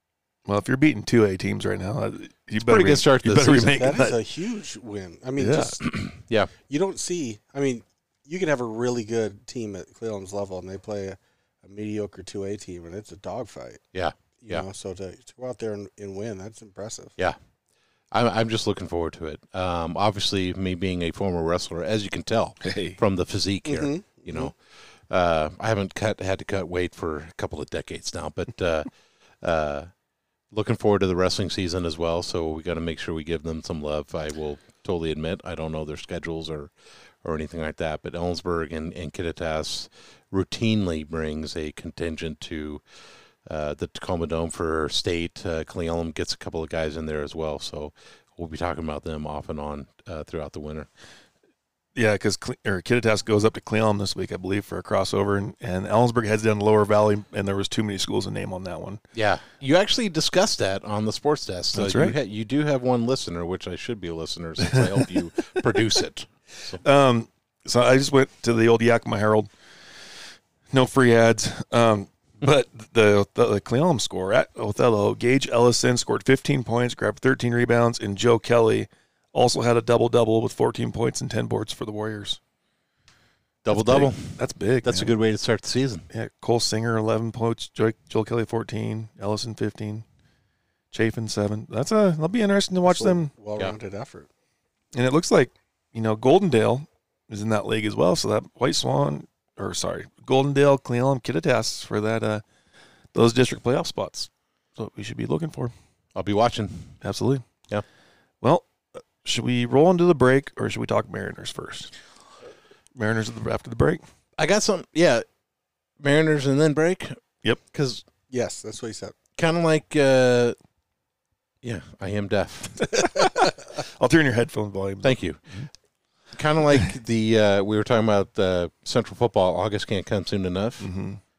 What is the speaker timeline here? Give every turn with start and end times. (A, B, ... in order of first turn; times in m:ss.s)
0:00.5-0:04.2 A
0:02.6-0:03.9 B
0:03.7-0:05.8 C
0:05.4-0:05.8 A
0:05.8-0:06.5 B
0:06.7-0:13.8 C
0:13.9-0:14.6 B
0:14.4-0:17.1 C
0:18.1-0:24.5 B
0:22.6-0:23.0 A
0:23.6-0:24.5 C
0:25.1-0:28.9 B
0:29.4-0:29.9 B
0:30.5-0:36.7 B
0:37.2-0:42.8 B
0:43.4-0:50.9 B
0:52.0-0:59.0 A
0:59.1-1:06.8 B
1:01.7-1:02.1 A
1:06.8-1:09.5 A
1:10.7-1:22.4 A
1:23.6-1:26.0 B
1:23.7-1:25.1 A
1:26.1-1:30.0 A
1:30.9-1:33.3 A
1:32.8-1:34.3 C
1:34.9-1:42.4 A
1:43.1-1:45.7 A
1:46.1-1:46.9 B
1:47.0-1:47.4 A
1:48.4-1:48.7 A
1:49.2-1:51.9 A
1:52.9-1:54.0 A
1:54.4-1:55.2 B
1:56.0-1:58.0 B
1:58.3-1:59.1 C
1:59.4-2:00.6 B
2:01.6-2:02.9 B
2:02.9-2:05.2 A
2:05.0-2:05.4 B
2:06.3-2:10.9 B
2:10.8-2:11.2 A